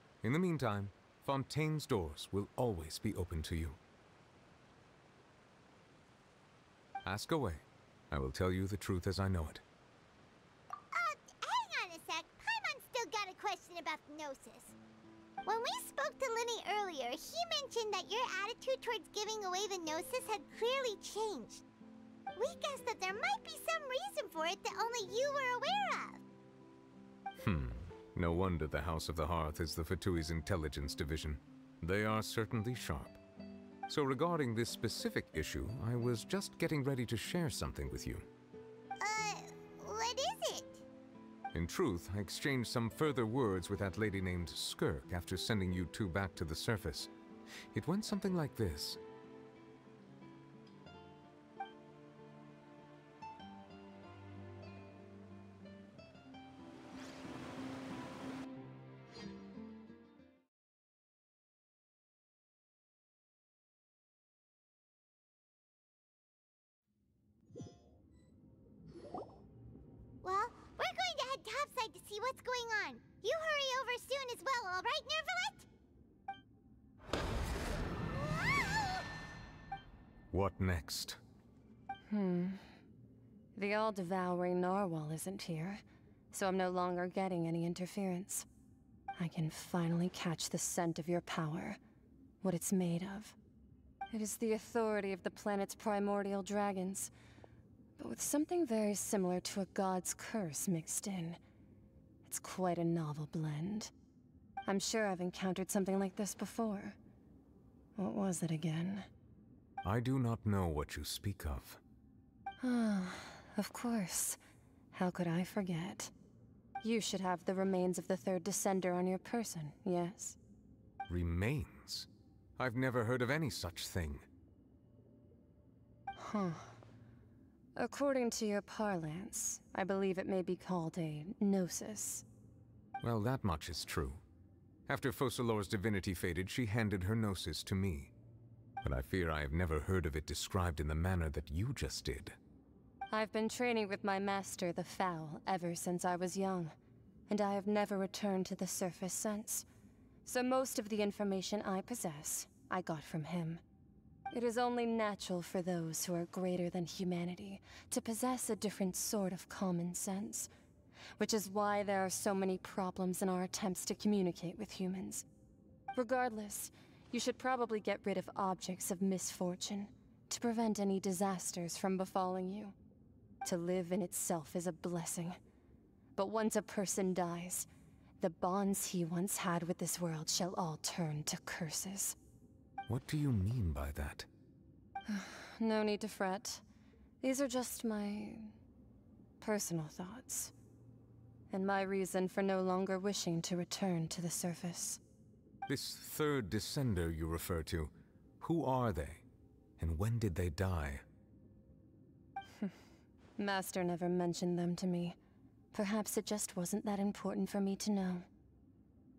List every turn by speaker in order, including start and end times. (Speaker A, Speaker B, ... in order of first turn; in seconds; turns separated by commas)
Speaker A: 0.2-3.8, Speaker A: 7.0-9.6, Speaker B: 10.9-14.8, Speaker B: 15.4-21.6, Speaker B: 22.4-26.2, Speaker A: 27.4-33.2, Speaker A: 33.9-38.3, Speaker B: 39.0-40.8, Speaker A: 41.5-47.1, Speaker A: 47.7-49.0, Speaker B: 70.2-75.7, Speaker A: 80.3-81.2, Speaker C: 82.1-82.6, Speaker C: 83.5-85.8, Speaker C: 86.3-88.5, Speaker C: 89.2-91.8, Speaker C: 92.4-93.4, Speaker C: 94.1-97.1, Speaker C: 98.0-101.4, Speaker C: 102.3-103.9, Speaker C: 104.7-107.0, Speaker C: 108.0-109.1, Speaker A: 109.8-111.8, Speaker C: 112.6-114.4, Speaker C: 114.9-116.1, Speaker C: 116.8-120.4, Speaker A: 121.1-124.3, Speaker C: 126.2-126.8, Speaker C: 127.8-132.2, Speaker A: 133.0-134.2, Speaker A: 134.9-138.1, Speaker A: 138.8-142.4, Speaker C: 143.1-146.8, Speaker C: 147.3-149.7, Speaker C: 150.2-153.6, Speaker C: 154.3-160.5, Speaker C: 161.2-165.3, Speaker C: 165.9-172.8, Speaker C: 173.4-175.4, Speaker C: 176.2-177.7, Speaker C: 178.2-182.2, Speaker A: 182.9-184.3, Speaker C: 185.1-186.6, Speaker C: 187.2-188.5, Speaker C: 189.4-190.5, Speaker C: 191.5-195.0, Speaker A: 195.7-199.2, Speaker A: 199.8-201.0, Speaker C: 203.4-205.2, Speaker C: 205.7-208.3